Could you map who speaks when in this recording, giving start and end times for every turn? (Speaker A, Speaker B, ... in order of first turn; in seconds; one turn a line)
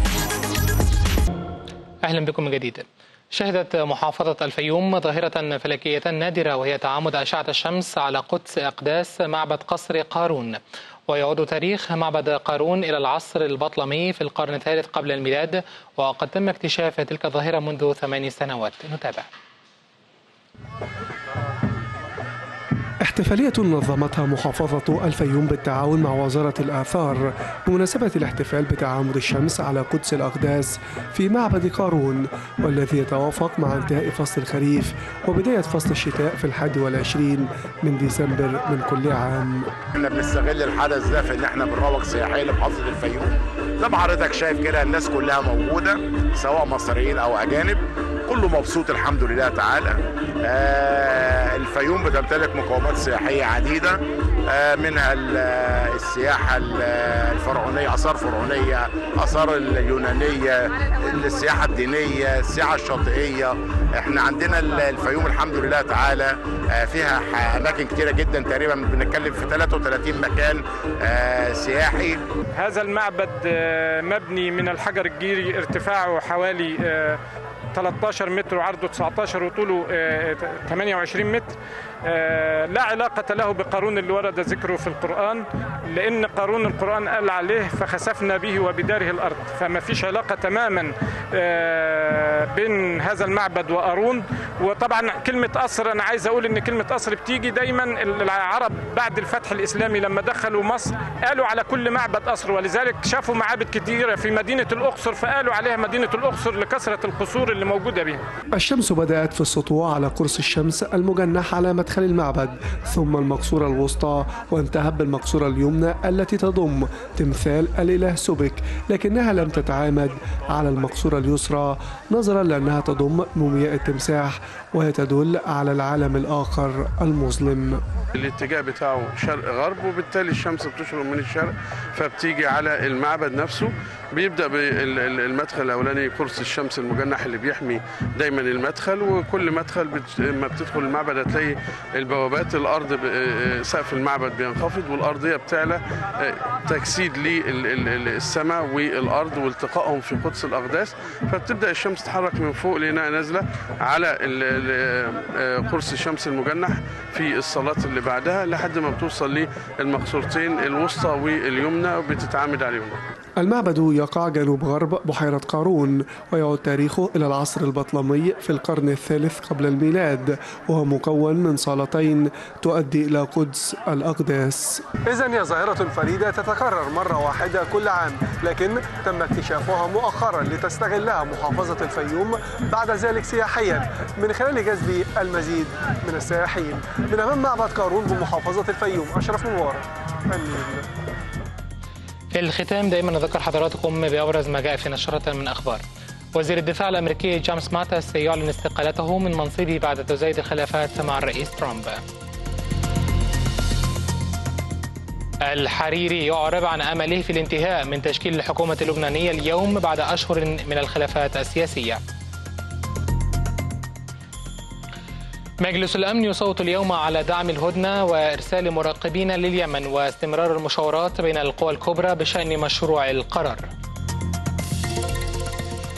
Speaker A: 2.0-19.3
Speaker B: 23.0-39.7
Speaker C: 39.9-72.2
Speaker D: 72.5-77.2
Speaker D: 77.7-108.2
Speaker B: 108.5-127.8
Speaker E: 128.1-163.0
Speaker B: 163.4-174.8
Speaker F: 175.0-190.8
Speaker A: 192.3-195.8
Speaker A: 196.3-202.0
Speaker A: 205.4-212.0
Speaker A: 215.6-223.7